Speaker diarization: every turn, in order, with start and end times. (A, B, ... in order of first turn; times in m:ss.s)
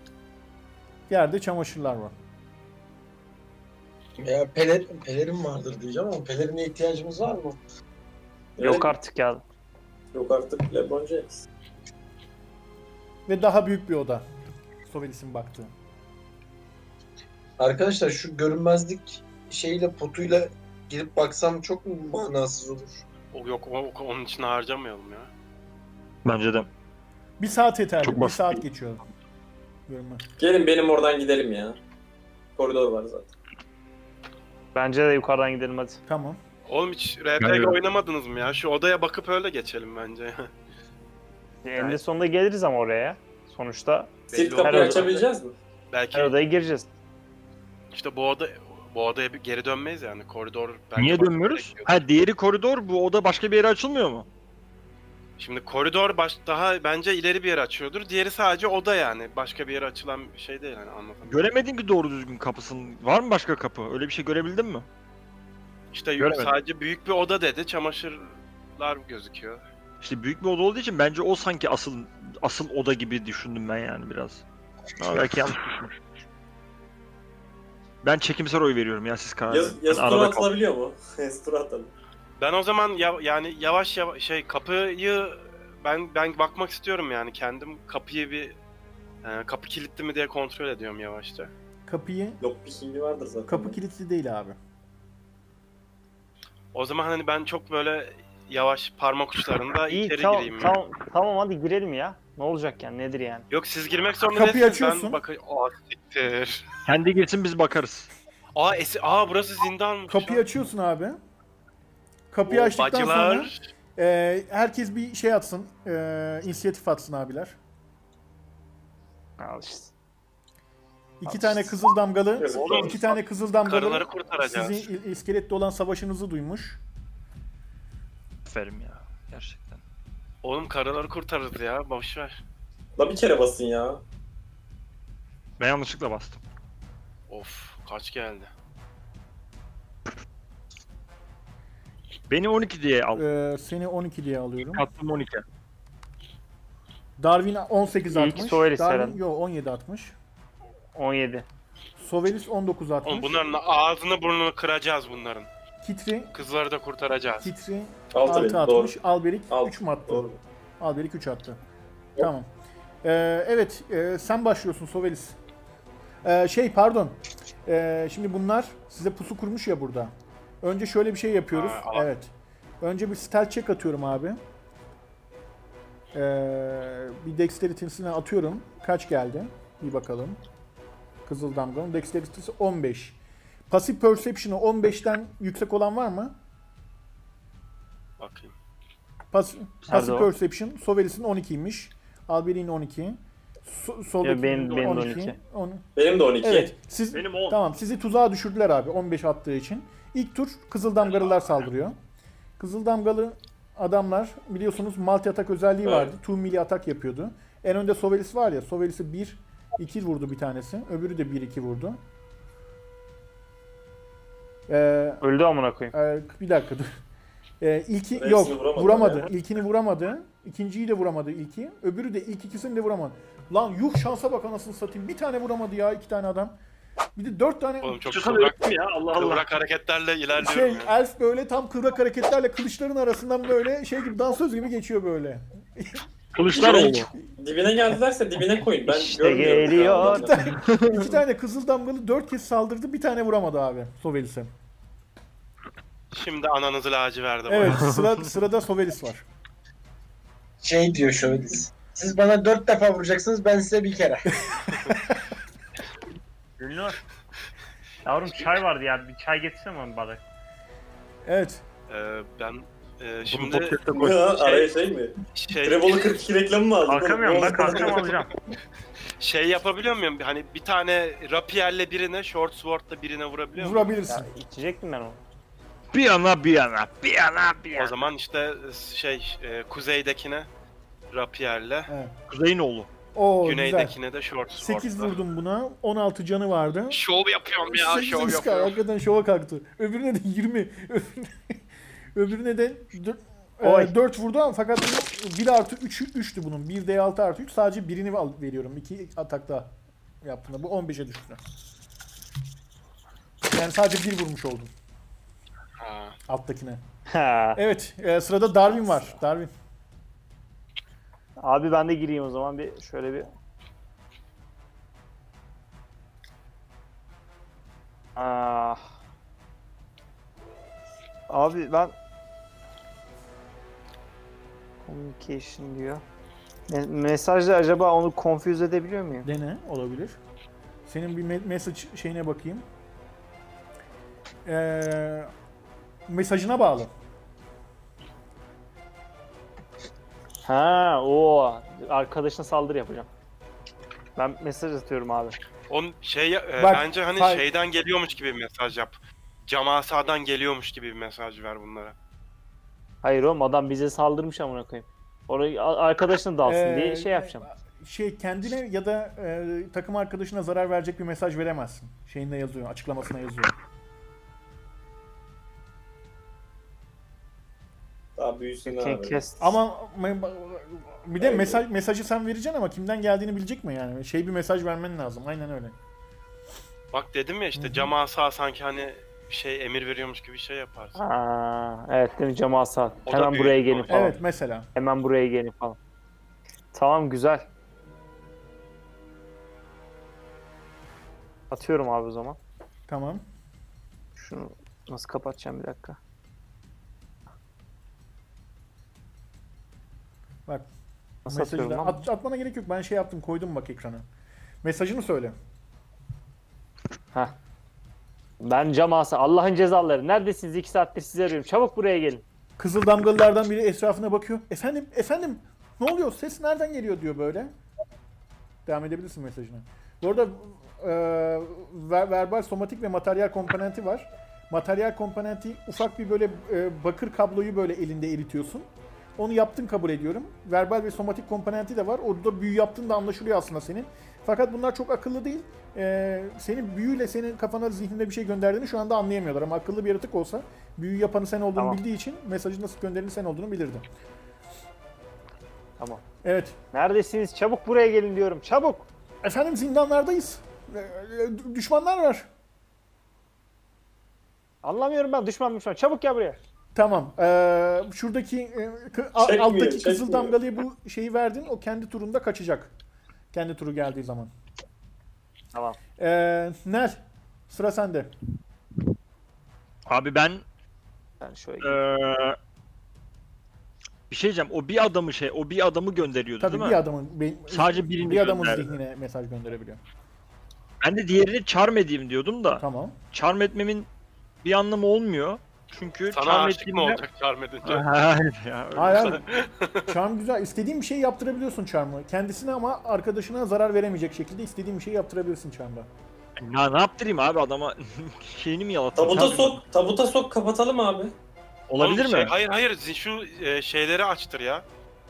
0:01.1-0:02.1 A
0:04.2-0:07.6 B
0:08.6-0:08.9 C
0:08.6-0:09.4 D
0:10.1-0:11.4 C
0:13.3-0:14.2 A
0:14.8-0:15.7 A
0:17.6-0:23.0 B
0:23.3-0:25.3 E
0:26.2-0:26.7 F
0:27.4-0:29.0 A
0:28.0-0:28.6 F
0:29.9-0:30.2 A
0:30.4-0:31.8 C
0:32.6-0:33.3 C
0:34.8-0:36.0 D
0:36.1-0:36.4 A
0:36.7-0:40.5 E
0:37.4-0:37.8 F
0:41.6-0:44.1 D
0:44.3-0:45.3 E
0:44.3-0:45.6 C
0:44.6-0:45.1 D
0:45.9-0:46.4 E
0:46.1-0:46.9 D
0:47.9-0:52.0 E
0:51.0-0:54.3 F
0:55.4-1:01.5 E
1:01.3-1:04.9 F
1:05.9-1:09.6 E
1:06.2-1:06.6 F
1:10.0-1:14.4 F
1:15.0-1:16.0 F
1:18.0-1:20.5 F
1:19.5-1:21.9 C
1:22.4-1:28.6 E
1:29.2-1:31.5 E
1:31.9-1:32.4 A
1:32.4-1:33.8 C
1:33.5-1:34.6 A
1:36.7-1:40.8 E
1:39.9-1:43.4 D
1:43.5-1:46.7 E
1:44.3-1:45.2 A
1:46.9-1:48.1 F
1:48.6-1:50.4 E
1:50.1-1:51.2 A
1:52.3-1:57.6 A
1:52.5-1:53.6 E
1:59.4-1:59.9 D
2:01.2-2:06.8 A
2:02.4-2:03.0 C
2:02.5-2:03.2 E
2:03.7-2:04.9 E
2:08.4-2:09.8 F
2:10.4-2:12.4 E
2:13.0-2:14.0 C
2:15.6-2:16.4 F
2:17.3-2:18.5 E
2:22.3-2:23.2 F
2:23.2-2:24.8 A
2:24.7-2:25.4 F
2:27.2-2:30.2 A
2:28.1-2:29.2 D
2:31.0-2:31.5 D
2:32.0-2:33.4 A
2:33.0-2:35.5 E
2:35.8-2:36.3 A
2:36.3-2:37.5 E
2:37.4-2:40.2 A
2:38.1-2:38.9 C
2:39.5-2:40.4 C
2:40.8-2:41.6 A
2:42.2-2:42.5 A
2:43.0-2:45.4 A
2:46.2-2:54.4 A
2:51.5-2:52.1 E
2:56.1-3:00.4 A
3:01.3-3:03.2 A
3:03.7-3:06.4 A
3:08.2-3:08.5 E
3:09.3-3:15.9 A
3:09.9-3:10.3 D
3:14.2-3:15.4 D
3:16.0-3:16.7 C
3:16.4-3:22.0 A
3:17.1-3:17.6 F
3:22.6-3:32.0 A
3:25.8-3:26.1 C
3:34.7-3:35.2 A
3:35.2-3:36.0 D
3:35.9-3:36.9 A
3:37.6-3:46.6 A
3:38.2-3:39.3 C
3:47.2-3:48.0 A
3:47.8-3:50.9 E
3:48.1-3:49.5 F
3:50.4-3:56.0 A
3:56.3-3:57.1 F
3:56.6-4:00.4 C
3:56.6-3:57.0 A
3:58.9-4:00.3 D
4:00.0-4:04.5 A
4:00.6-4:01.2 F
4:06.1-4:07.9 E
4:07.5-4:09.3 A
4:07.6-4:08.1 F
4:10.6-4:14.5 B
4:14.7-4:15.2 A
4:16.6-4:17.0 D
4:18.0-4:20.2 D
4:21.2-4:21.6 A
4:21.9-4:24.7 E
4:23.3-4:24.2 F
4:23.9-4:28.1 C
4:25.3-4:26.0 E
4:26.8-4:28.3 D
4:29.2-4:33.9 E
4:33.6-4:34.3 A
4:34.1-4:35.2 D
4:35.9-4:38.0 F
4:37.8-4:40.5 E
4:41.1-4:41.9 E
4:41.9-4:42.1 A
4:42.3-4:42.9 F
4:43.2-4:44.0 A
4:43.4-4:45.2 E
4:44.5-4:47.0 A
4:46.9-4:48.8 E
4:47.7-4:51.6 A
4:52.1-5:01.4 A
4:53.6-4:53.9 D
5:03.5-5:04.7 A
5:05.8-5:06.2 E
5:06.3-5:06.8 A
5:07.1-5:07.6 D
5:07.6-5:09.5 A
5:11.4-5:13.3 D
5:18.2-5:18.8 D
5:21.3-5:22.0 D
5:24.8-5:26.0 D
5:26.7-5:29.3 D
5:29.2-5:30.2 A
5:30.9-5:32.6 A
5:34.4-5:35.3 A
5:36.1-5:36.9 A
5:40.4-5:43.1 D
5:44.2-5:45.4 D
5:45.7-5:52.0 E
5:46.6-5:47.5 A
5:53.0-5:57.5 D
5:56.4-6:03.5 A
6:08.2-6:09.2 C
6:08.7-6:09.6 D
6:09.4-6:15.8 A
6:11.2-6:11.6 C
6:16.9-6:21.0 E
6:17.6-6:17.9 A
6:21.0-6:24.2 D
6:23.0-6:24.2 E
6:23.9-6:24.7 A
6:24.8-6:25.8 D
6:26.7-6:27.5 D
6:31.5-6:32.4 D
6:32.9-6:33.2 A
6:34.2-6:36.0 D
6:41.2-6:42.0 D
6:41.3-6:44.1 A
6:44.6-6:45.4 A
6:48.4-6:52.2 D
6:52.6-6:57.5 A
6:58.7-7:23.9 A
7:25.8-7:26.0 D
7:26.2-7:26.6 A
7:26.7-7:28.9 D
7:29.2-7:32.3 A
7:34.6-7:36.4 D
7:36.8-7:42.7 A
7:39.2-7:40.3 C
7:43.3-7:44.3 A
7:46.0-7:48.1 A
7:49.9-7:50.4 F
7:51.2-7:51.8 D
7:51.6-7:52.4 F
7:54.1-7:56.8 F
7:56.4-7:59.8 A
7:57.5-7:58.7 F
8:00.8-8:03.9 F
8:02.6-8:03.0 A
8:04.4-8:07.0 F
8:06.1-8:07.9 E
8:07.6-8:09.4 F
8:08.8-8:09.2 A
8:09.0-8:09.9 E
8:09.9-8:15.9 A
8:16.4-8:19.6 F
8:19.0-8:21.1 C
8:21.7-8:22.4 F
8:21.8-8:24.6 E